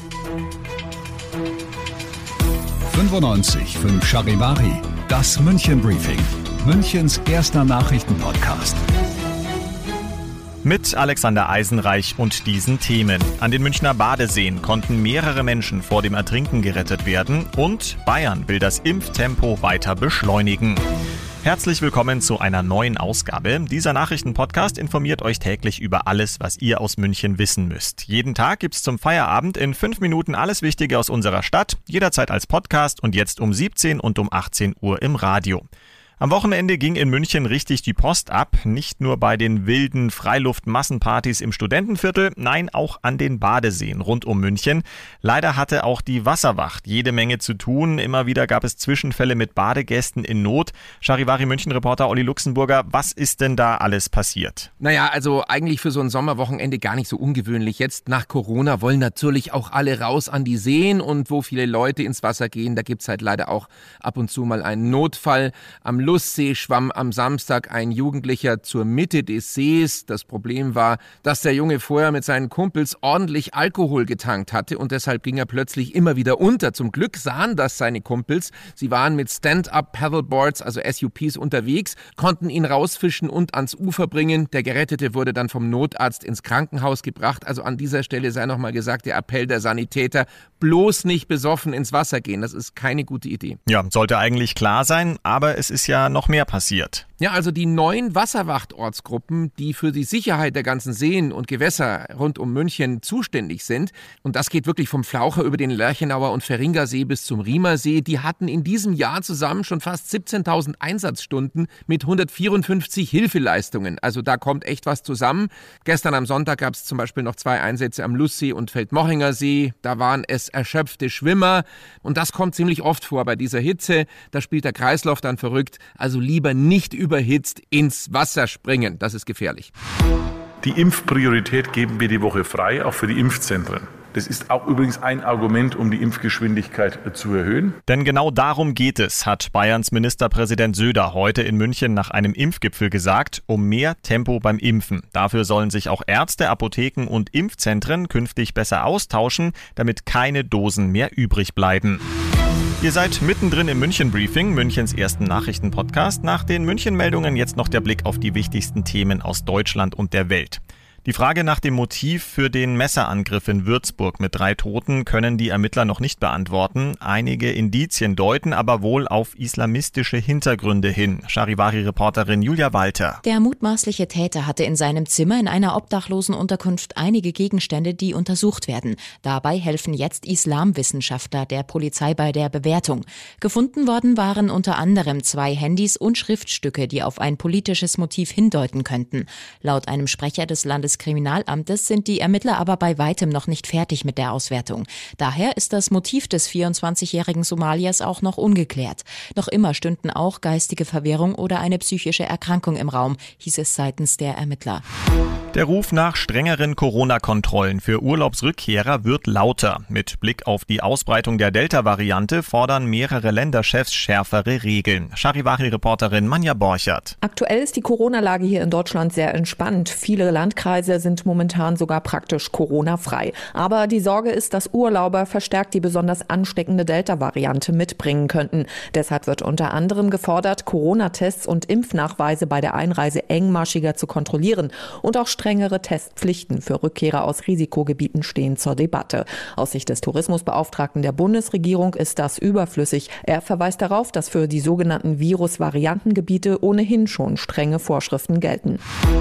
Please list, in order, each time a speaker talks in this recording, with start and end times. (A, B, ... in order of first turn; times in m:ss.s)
0:02.9-0:08.8 A
0:10.6-0:20.8 B
0:21.4-0:35.6 B
0:36.2-0:54.7 B
0:54.8-1:33.6 C
1:33.6-1:37.0 B
1:37.2-2:09.7 C
2:10.6-2:17.8 D
2:17.9-2:32.0 B
2:32.8-2:53.2 B
2:53.2-3:24.8 E
3:25.5-3:37.1 B
3:37.2-4:08.8 F